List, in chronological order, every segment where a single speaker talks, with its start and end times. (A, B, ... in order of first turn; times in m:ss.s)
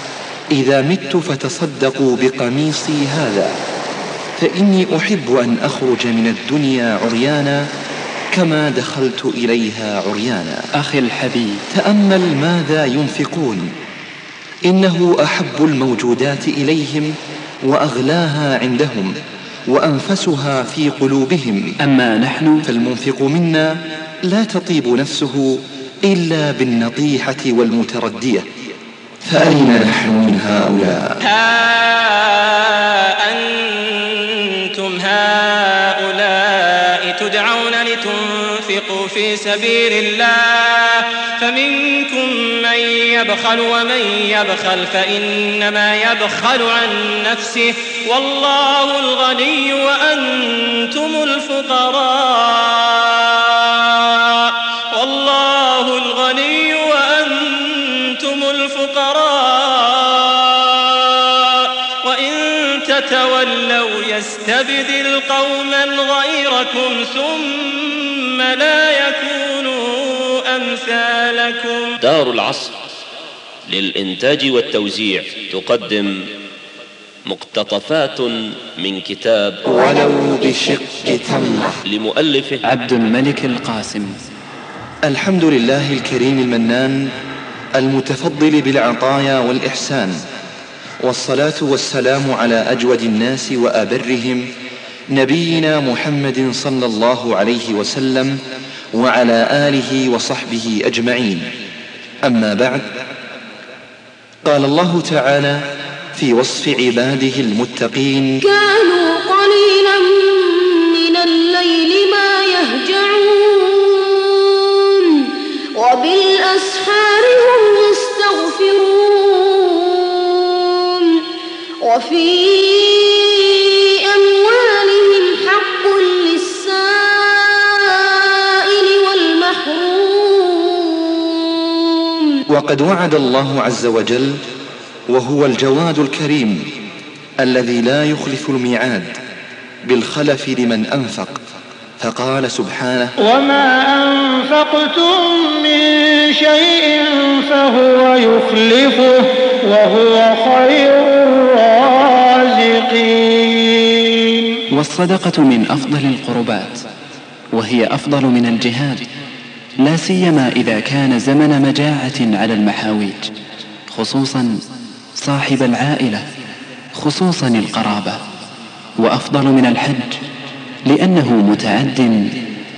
0:00.5-0:03.5 A
0:04.4-0:07.6 A
0:08.3-0:10.7 A
0:10.8-0:11.6 B
0:11.7-0:13.7 A
0:14.7-0:17.1 A
0:17.7-0:19.1 A
0:19.7-0:21.7 A
0:21.8-0:22.6 B
0:22.7-0:23.7 A
0:24.2-0:28.5 A
0:29.2-0:31.2 A
0:31.2-1:11.9 C
1:12.0-1:12.7 D
1:13.7-1:16.2 D
1:17.2-1:19.6 D
1:19.7-1:21.8 A
1:21.8-1:22.6 D
1:22.6-1:24.2 B
1:25.0-1:27.1 A
1:27.8-1:30.2 A
1:31.0-1:34.5 A
1:35.1-1:38.4 A
1:38.9-1:41.5 A
1:42.3-1:42.9 A
1:44.5-1:45.6 A
1:46.2-1:48.4 A
1:48.4-2:01.3 E
2:01.8-2:12.4 E
2:12.5-2:14.4 A
2:15.1-2:16.7 A
2:17.4-2:19.1 A
2:19.9-2:21.4 A
2:22.0-2:23.1 A
2:23.2-2:34.6 F
2:34.7-2:36.8 B
2:37.5-2:39.0 B
2:39.8-2:43.3 B
2:43.9-2:44.6 B
2:45.2-2:46.2 B
2:46.9-2:48.2 B
2:49.0-2:50.2 B
2:50.8-2:52.4 B